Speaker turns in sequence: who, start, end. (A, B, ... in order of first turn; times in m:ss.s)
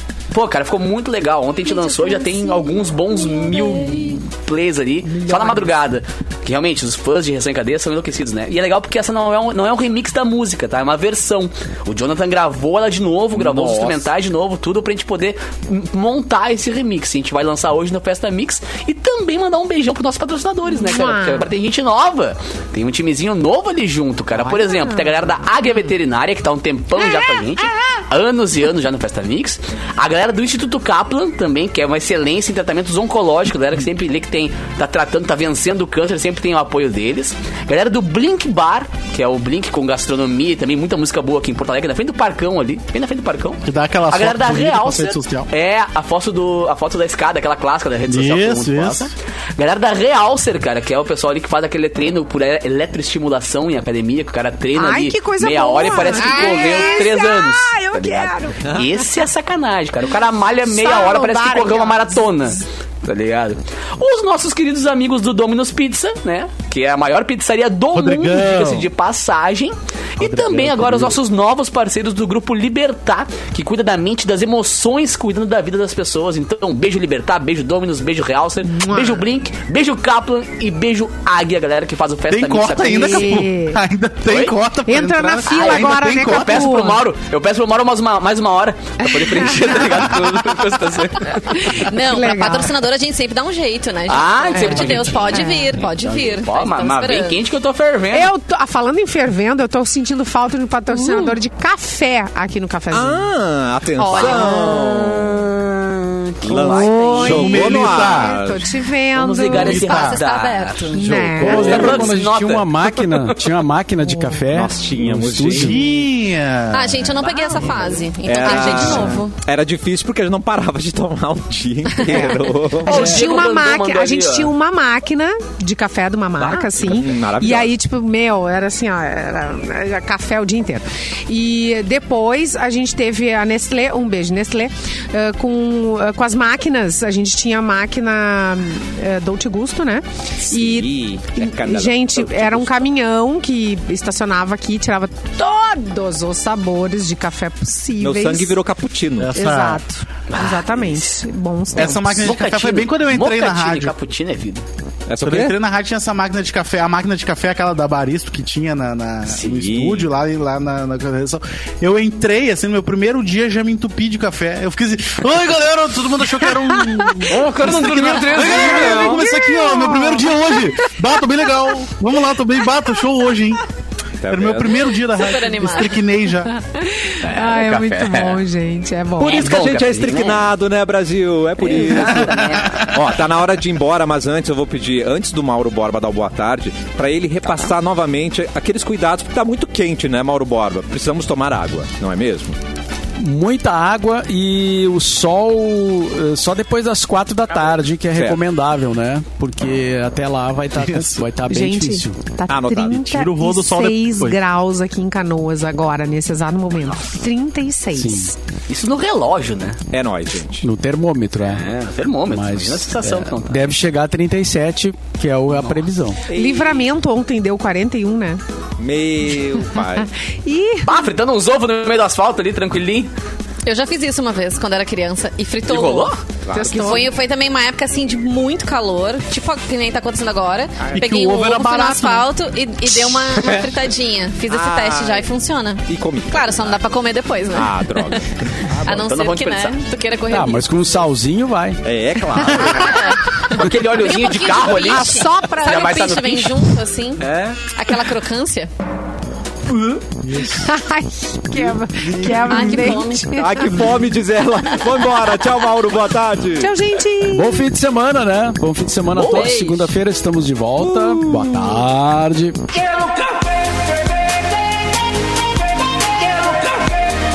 0:00.3-1:23.4 A
0:05.1-0:05.7 B
0:13.4-0:14.0 C
0:20.7-0:21.5 B
0:24.4-0:25.1 B
0:27.0-0:27.7 B
0:43.6-0:45.5 D
0:48.1-0:49.1 D
0:54.8-0:59.0 B
0:56.0-0:57.1 E
1:00.7-1:02.6 B
1:07.9-1:08.9 D
1:10.2-1:11.2 D
1:18.7-1:19.2 B
1:22.3-1:26.8 D
1:22.8-1:23.8 B
1:24.3-1:24.6 A
1:24.9-1:27.0 B
1:25.5-1:31.8 A
1:29.0-1:29.8 B
1:31.3-1:37.4 E
1:31.6-1:32.7 B
1:34.1-1:38.3 A
1:34.5-1:35.7 B
1:38.1-1:43.3 B
1:42.9-1:45.6 C
1:44.0-1:45.2 E
1:44.1-1:45.0 A
1:46.4-1:47.3 A
1:46.4-1:48.8 C
1:46.5-1:50.0 B
1:46.8-1:47.5 E
1:47.2-1:48.4 D
1:49.1-1:53.4 A
1:49.5-1:50.2 D
1:49.7-1:51.1 E
1:50.9-1:52.0 B
1:51.0-1:55.8 F
1:51.5-1:51.9 C
1:54.1-1:54.4 B
1:54.5-1:55.8 C
1:55.5-1:57.1 D
1:56.7-1:59.3 E
1:57.2-1:58.0 A
1:58.2-2:03.2 C
2:02.0-2:28.6 B
2:02.8-2:04.5 A
2:06.4-2:06.6 A
2:06.5-2:07.7 C
2:20.4-2:22.9 C
2:28.0-2:29.4 C
2:29.2-2:29.8 D
2:29.3-2:32.3 B
2:30.3-2:31.2 A
2:31.7-2:33.9 D
2:32.2-2:34.6 A
2:35.1-2:35.5 C
2:35.2-2:53.6 D
2:39.4-2:40.1 C
2:47.2-2:49.2 A
2:48.4-2:50.5 B
2:54.2-2:54.9 C
2:54.3-2:56.5 D
2:55.1-2:56.0 E
2:56.5-2:59.7 B
2:57.2-2:58.4 A
2:59.2-3:12.5 C
2:59.2-3:00.5 A
3:01.6-3:02.9 A
3:13.2-3:22.2 F
3:18.1-3:18.4 C
3:20.8-3:21.3 D
3:21.5-3:28.3 B
3:22.5-3:23.2 C
3:23.0-3:24.4 D
3:27.9-3:28.3 F
3:28.7-3:29.8 A
3:29.9-3:30.6 C
3:30.6-3:31.7 F
3:31.4-3:33.6 A
3:32.3-3:36.2 F
3:36.3-3:36.9 C
3:36.3-3:38.4 B
3:38.8-3:40.1 C
3:40.4-3:41.1 B
3:40.8-3:43.1 A
3:43.6-3:58.2 E
3:45.7-3:46.2 A
3:46.4-3:47.0 C
3:46.5-3:47.1 B
3:50.8-3:51.1 C
3:50.9-3:52.3 D
3:54.5-3:55.3 C
3:55.8-3:56.9 C
3:57.5-3:59.1 C
3:58.8-4:00.7 E
3:58.8-3:59.8 A
4:00.3-4:01.8 F
4:01.8-4:03.2 C
4:02.6-4:08.7 E
4:03.5-4:06.6 A
4:04.8-4:06.1 B
4:07.2-4:07.7 A
4:09.7-4:10.0 A
4:10.5-4:13.9 B
4:12.0-4:13.0 F
4:12.4-4:13.4 E
4:13.3-4:16.8 C
4:16.6-4:17.6 B
4:17.3-4:22.7 F
4:19.1-4:19.6 A
4:19.2-4:19.9 E
4:20.8-4:21.2 C